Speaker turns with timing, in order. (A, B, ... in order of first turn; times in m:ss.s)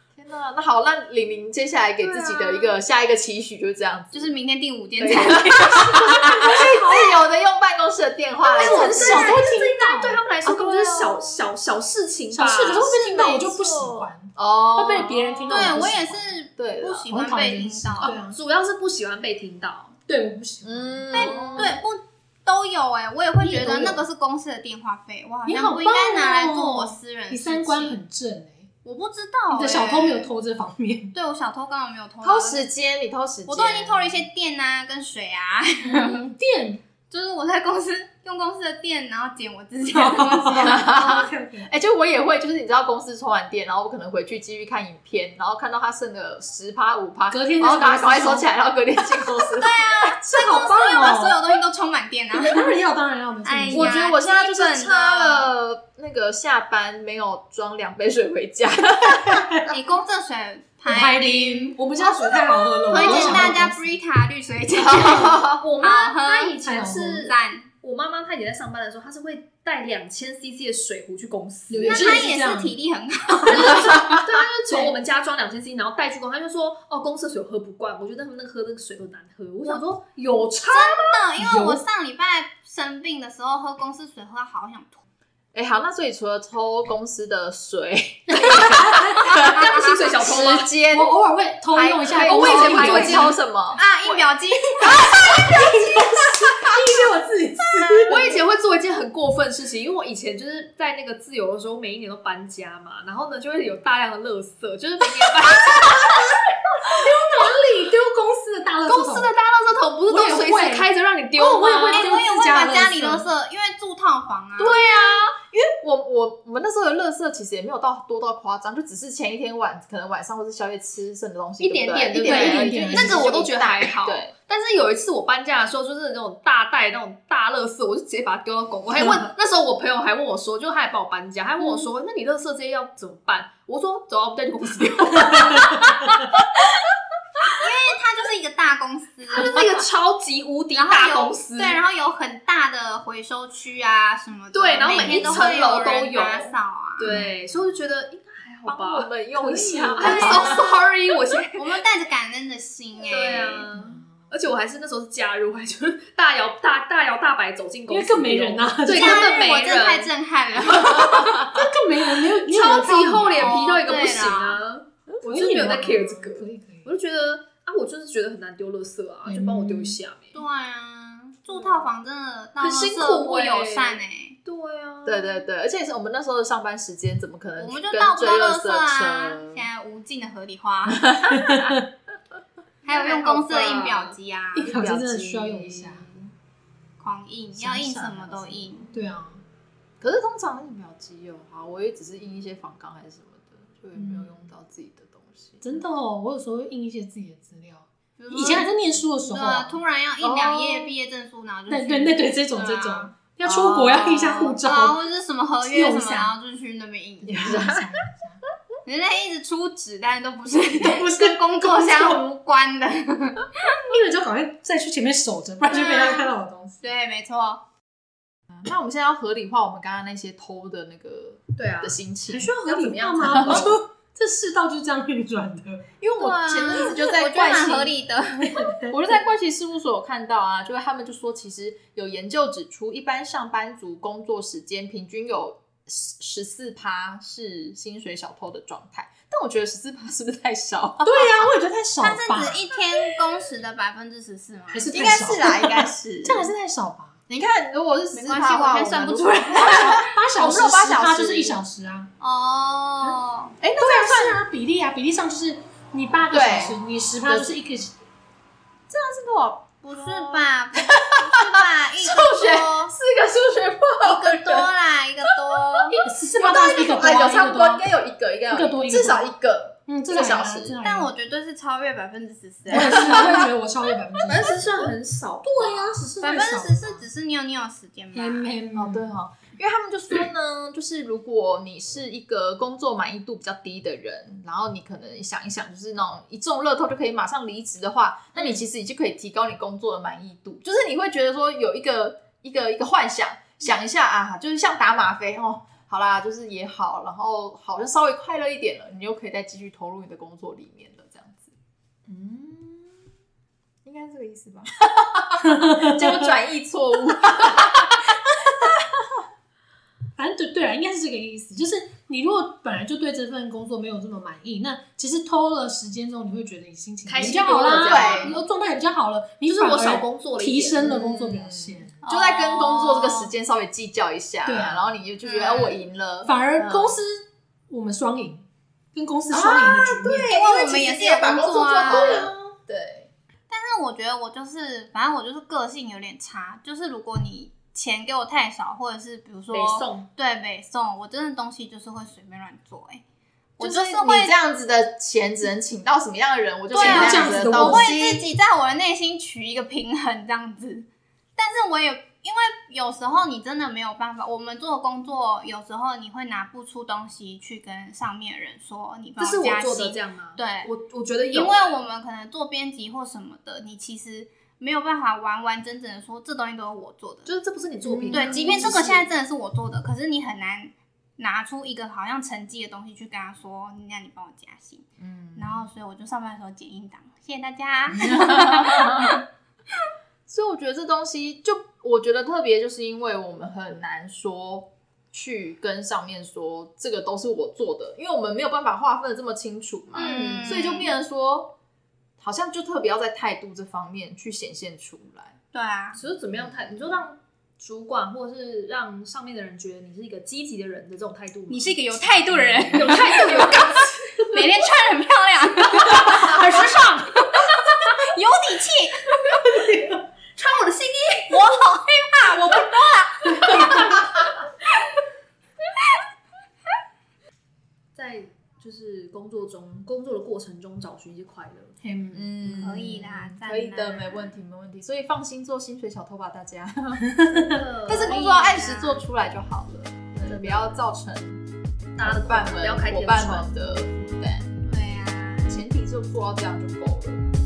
0:00.2-0:04.3 A
0:02.2-0:02.6 B
0:04.1-0:06.7 C
0:05.0-0:09.5 A
0:08.4-0:10.2 D
0:08.6-0:13.9 B
0:10.4-0:11.4 A
0:12.3-0:16.3 D
0:12.8-0:17.1 A
0:15.5-0:18.2 C
0:17.1-0:18.4 D
0:18.0-0:20.0 B
0:20.1-0:21.1 D
0:20.6-0:21.8 A
0:21.1-0:28.0 C
0:21.3-0:21.7 B
0:23.4-0:24.0 B
0:25.5-0:28.7 D
0:28.8-0:30.3 C
0:29.5-0:31.2 D
0:31.1-0:32.7 C
0:32.2-0:34.2 A
0:33.5-0:36.3 C
0:35.8-0:36.8 D
0:37.1-0:41.1 C
0:39.9-0:41.7 D
0:40.5-0:50.0 A
0:47.3-0:48.5 D
0:49.6-0:52.7 C
0:50.2-0:51.5 D
0:52.3-0:54.0 D
0:53.4-0:55.5 C
0:53.7-0:59.5 A
0:59.3-0:59.7 D
0:59.7-1:06.6 C
1:00.9-1:03.9 D
1:02.9-1:03.6 B
1:03.0-1:03.6 A
1:04.8-1:05.6 A
1:05.6-1:12.2 B
1:06.6-1:07.2 D
1:07.1-1:07.7 C
1:11.7-1:12.8 D
1:11.9-1:14.2 C
1:13.3-1:13.7 D
1:13.5-1:21.3 B
1:13.9-1:14.2 A
1:14.7-1:15.0 D
1:20.7-1:25.0 C
1:21.4-1:21.8 D
1:25.5-1:31.1 A
1:28.3-1:29.3 D
1:29.2-1:30.0 C
1:29.3-1:30.7 B
1:30.9-1:33.4 D
1:31.7-1:34.2 A
1:32.1-1:33.4 B
1:33.7-1:35.5 C
1:34.8-1:37.0 A
1:35.2-1:38.4 D
1:38.1-1:46.9 B
1:46.8-1:49.3 D
1:48.9-1:52.1 B
1:50.1-1:53.3 D
1:51.9-1:55.0 C
1:54.6-2:04.3 A
1:54.8-1:55.2 B
2:01.6-2:16.2 B
2:02.2-2:03.4 D
2:15.3-2:15.8 D
2:17.4-2:19.6 C
2:19.3-2:21.8 B
2:20.7-2:27.1 C
2:24.5-2:31.7 B
2:25.0-2:25.5 A
2:27.0-2:27.4 D
2:28.7-2:30.7 A
2:30.0-2:30.7 C
2:31.6-2:33.7 C
2:33.0-2:40.1 B
2:33.7-2:34.1 D
2:37.9-2:39.4 D
2:38.9-2:41.5 C
2:40.7-2:41.6 A
2:41.3-2:43.6 D
2:42.4-2:50.4 B
2:43.4-2:44.6 C
2:45.2-2:46.9 D
2:49.3-2:50.0 D
2:50.3-2:54.4 C
2:51.5-2:51.9 B
2:52.6-2:55.4 B
2:55.0-2:59.7 A
2:57.6-3:01.2 C
3:00.9-3:01.8 A
3:01.3-3:01.9 D
3:02.8-3:04.7 C
3:02.9-3:04.2 B
3:04.6-3:06.1 D
3:04.6-3:06.3 A
3:07.0-3:08.9 C
3:07.5-3:08.9 A
3:08.9-3:09.4 D
3:10.0-3:15.8 A
3:14.0-3:14.3 D
3:15.6-3:19.8 D
3:18.2-3:27.7 C
3:20.2-3:20.9 A
3:21.7-3:25.0 D
3:23.5-3:24.0 A
3:25.6-3:26.3 D
3:27.2-3:27.9 A
3:27.3-3:28.4 D
3:28.8-3:33.8 C
3:30.8-3:32.2 D
3:33.9-3:36.8 D
3:35.6-3:37.6 C
3:38.5-3:42.5 A
3:41.6-3:42.0 B
3:42.3-3:45.9 D
3:42.6-3:43.8 B
3:43.2-3:43.7 A
3:46.0-3:48.0 A
3:46.2-3:48.8 C
3:48.6-3:48.9 D
3:48.8-4:01.4 A
4:01.0-4:02.6 D
4:02.0-4:05.3 C
4:04.7-4:07.2 D
4:04.9-4:06.5 A
4:07.3-4:11.6 A
4:08.1-4:10.0 C
4:09.6-4:12.1 D
4:12.2-4:13.5 C
4:13.6-4:14.4 A
4:13.7-4:18.0 D
4:16.3-4:17.6 A
4:18.9-4:24.7 A
4:19.8-4:22.9 C
4:24.0-4:26.0 C
4:25.3-4:30.8 A
4:26.0-4:27.9 D
4:28.5-4:29.3 D
4:29.9-4:31.1 D
4:30.8-4:33.4 C
4:32.7-4:34.8 D
4:32.8-4:33.4 A
4:34.3-4:36.1 B
4:35.4-4:37.1 D
4:36.2-4:38.5 C
4:38.1-4:39.1 D
4:38.7-5:01.6 A
5:02.1-5:03.0 B
5:03.8-5:09.2 A
5:05.5-5:06.3 D
5:10.2-5:22.0 D
5:17.1-5:18.4 B
5:17.7-5:18.4 A
5:19.6-5:21.0 B
5:20.8-5:27.0 A
5:22.0-5:23.3 C
5:24.4-5:24.9 D
5:25.2-5:25.8 C
5:26.2-5:30.3 D
5:29.3-5:33.1 A
5:30.3-5:32.3 C
5:31.9-5:32.3 D
5:33.5-5:43.0 C
5:39.5-5:40.1 B
5:43.6-5:44.3 C
5:43.6-5:48.2 A
5:46.7-5:48.0 D
5:46.7-5:50.9 C
5:51.4-6:00.7 C
5:59.2-6:01.8 B
6:01.3-6:07.3 C
6:07.3-6:09.1 B
6:07.8-6:08.3 D
6:08.1-6:08.8 A
6:08.1-6:14.8 C
6:15.0-6:15.7 A
6:15.4-6:19.2 C
6:17.9-6:19.2 A
6:20.3-6:31.5 A
6:29.9-6:30.9 C
6:30.0-6:30.5 B
6:32.2-6:35.4 A
6:35.5-6:36.0 C
6:36.0-6:41.8 B
6:41.5-6:49.1 C
6:42.3-6:43.0 A
6:42.7-6:44.2 B
6:43.1-6:43.6 D
6:46.3-6:46.8 D
6:49.5-6:50.0 D
6:50.4-6:51.4 B
6:51.3-6:54.0 C
6:53.4-6:54.1 D
6:58.0-7:01.8 B
7:01.8-7:02.3 D
7:02.1-7:07.2 A
7:02.6-7:04.3 C
7:07.2-7:07.6 D
7:07.4-7:08.2 B
7:07.8-7:11.4 A
7:07.9-7:09.0 C
7:10.3-7:10.8 B
7:12.0-7:13.7 B
7:12.0-7:14.6 A
7:14.7-7:15.6 C
7:15.5-7:17.2 A